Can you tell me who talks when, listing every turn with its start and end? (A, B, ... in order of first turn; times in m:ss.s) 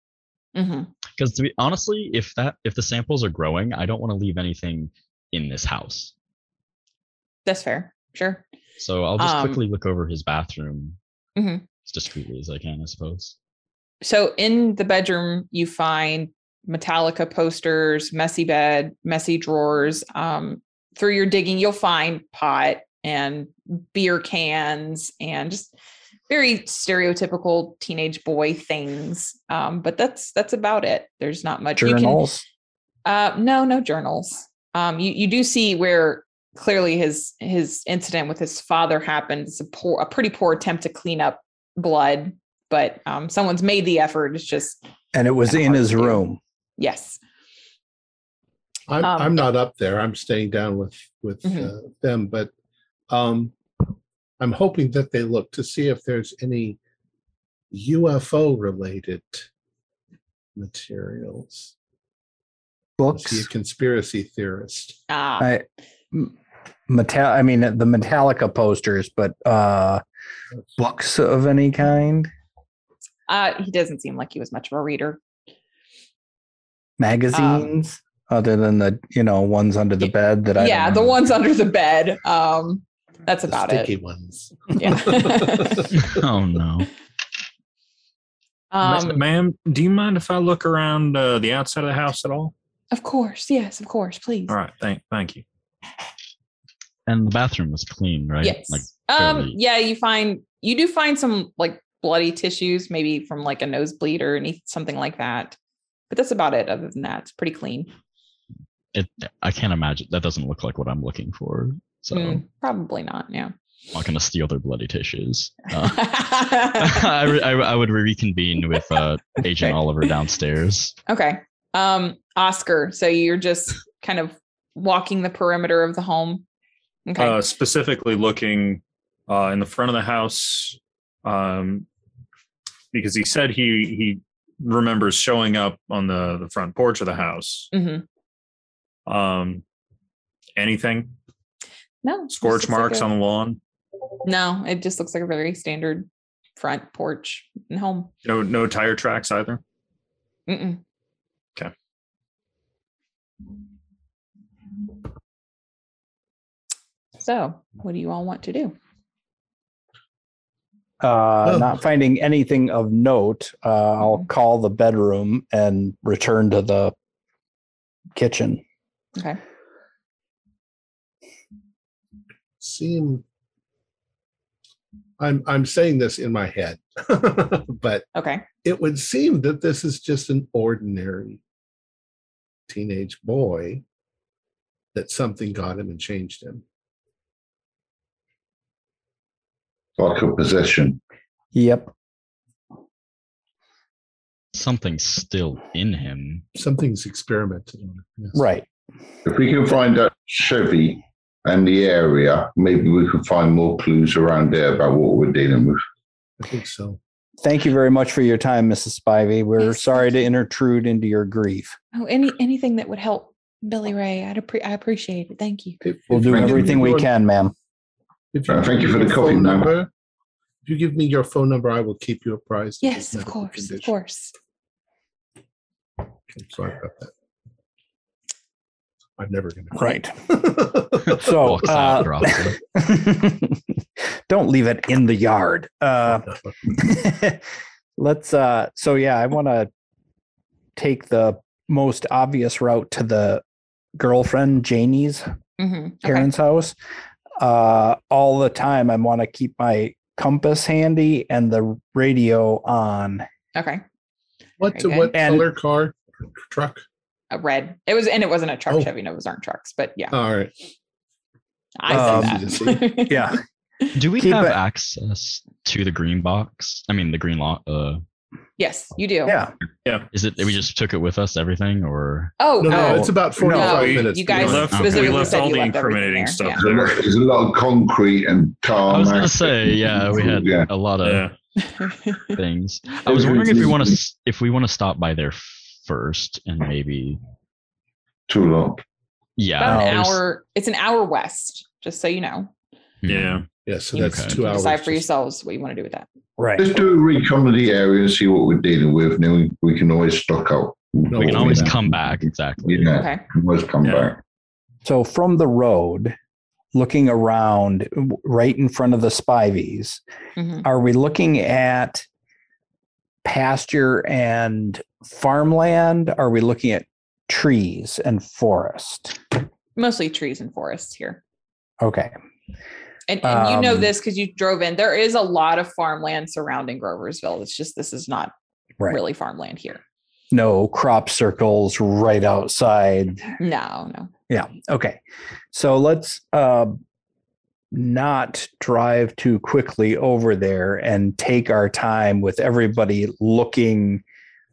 0:00.6-0:00.9 A
0:01.2-0:06.1 B
0:07.4-0:08.4 A
0:08.8-0:11.0 B
0:09.2-0:09.6 A
0:11.4-0:11.6 A
0:11.8-0:13.4 B
0:14.0-0:25.7 A
0:26.3-0:32.2 A
0:31.8-0:32.4 C
0:33.0-0:44.8 A
0:45.1-0:46.4 C
0:45.5-0:46.2 A
0:46.8-0:47.2 A
0:48.9-0:52.5 D
0:49.0-0:49.4 A
0:51.4-0:51.7 A
0:53.1-0:53.6 D
0:54.4-0:56.8 D
0:57.7-0:59.5 D
1:00.6-1:01.7 D
1:03.0-1:03.5 C
1:03.1-1:05.0 D
1:05.1-1:05.5 A
1:05.4-1:06.3 C
1:06.9-1:10.0 C
1:10.8-1:12.3 C
1:13.3-1:15.2 A
1:17.0-1:21.2 C
1:17.3-1:17.7 A
1:20.0-1:23.9 A
1:23.5-1:26.2 D
1:24.8-1:25.9 A
1:25.9-1:26.9 B
1:28.7-1:29.2 A
1:28.8-1:32.5 E
1:32.9-1:34.6 A
1:34.5-1:35.4 E
1:37.1-1:39.6 B
1:38.4-1:45.6 A
1:46.1-1:47.9 A
1:48.9-1:52.4 B
1:52.1-1:53.5 A
1:53.9-2:01.0 B
1:55.8-1:57.2 A
2:01.1-2:06.4 A
2:07.1-2:07.4 A
2:07.2-2:11.9 E
2:12.9-2:17.7 E
2:17.7-2:18.0 A
2:19.1-2:19.6 E
2:20.6-2:21.1 E
2:22.0-2:23.1 A
2:22.3-2:23.6 E
2:24.2-2:28.1 A
2:28.2-2:29.6 E
2:30.5-2:30.8 A
2:37.2-2:38.8 A
2:41.0-2:46.9 C
2:41.4-2:41.8 D
2:48.2-2:48.6 C
2:52.6-2:53.2 D
2:55.2-2:58.1 D
2:58.2-2:58.5 A
2:58.6-3:01.4 D
3:02.7-3:03.8 D
3:04.9-3:06.6 D
3:10.0-3:11.0 F
3:11.5-3:11.9 C
3:14.5-3:16.4 B
3:16.6-3:18.4 D
3:18.3-3:18.7 C
3:19.2-3:25.8 F
3:26.4-3:27.0 D
3:27.4-3:31.8 C
3:29.6-3:30.3 A
3:31.9-3:35.8 A
3:35.8-3:37.1 D
3:36.1-3:37.5 C
3:36.2-3:37.0 F
3:38.3-3:39.9 D
3:38.5-3:39.8 F
3:40.6-3:43.9 D
3:42.8-3:44.3 A
3:46.3-3:47.1 D
3:49.2-3:51.3 D
3:49.8-3:50.3 C
3:51.1-3:52.6 B
3:51.1-3:53.6 C
3:54.3-3:57.4 C
3:58.0-3:59.7 C
4:00.8-4:03.4 C
4:04.0-4:05.3 C
4:05.6-4:06.3 A
4:06.0-4:06.8 C
4:07.4-4:13.3 C
4:13.6-4:13.8 A
4:14.6-4:16.8 D
4:14.7-4:15.1 A
4:15.1-4:15.5 C
4:17.3-4:20.2 A
4:20.1-4:20.5 D
4:21.8-4:23.9 A
4:21.9-4:23.0 D
4:21.9-4:22.4 C
4:23.1-4:23.4 C
4:24.0-4:28.0 B
4:24.2-4:24.6 C
4:28.6-4:29.4 A
4:29.3-4:29.5 C
4:30.1-4:32.3 B
4:32.4-4:36.6 A
4:32.6-4:35.0 D
4:32.7-4:33.8 C
4:33.5-4:37.0 E
4:34.7-4:35.3 B
4:36.6-4:40.7 F
4:38.9-4:41.3 B
4:41.0-4:41.3 E
4:41.8-4:42.4 A
4:42.3-4:47.2 B
4:43.0-4:44.0 F
4:48.3-4:48.8 F
4:49.4-4:50.2 B
4:49.6-4:52.5 A
4:49.6-4:50.0 C
4:53.0-4:53.4 B
4:53.1-4:53.5 E
4:53.6-4:55.0 D
4:53.9-4:56.1 A
4:54.0-4:54.4 B
4:56.4-4:56.7 C
4:56.6-5:02.0 F
5:01.1-5:01.8 D
5:01.2-5:03.0 B
5:02.6-5:04.2 F
5:03.0-5:03.2 A
5:03.8-5:04.1 E
5:04.8-5:06.2 C
5:06.7-5:10.0 C
5:10.4-5:10.6 A
5:10.6-5:12.0 C
5:13.2-5:19.2 C
5:19.8-5:21.2 A
5:21.8-5:22.1 C
5:23.1-5:28.3 A
5:23.2-5:23.9 C
5:28.9-5:29.8 A
5:30.3-5:33.3 C
5:33.4-5:34.1 A
5:34.3-5:35.0 C
5:35.5-5:36.8 C
5:37.7-5:44.0 C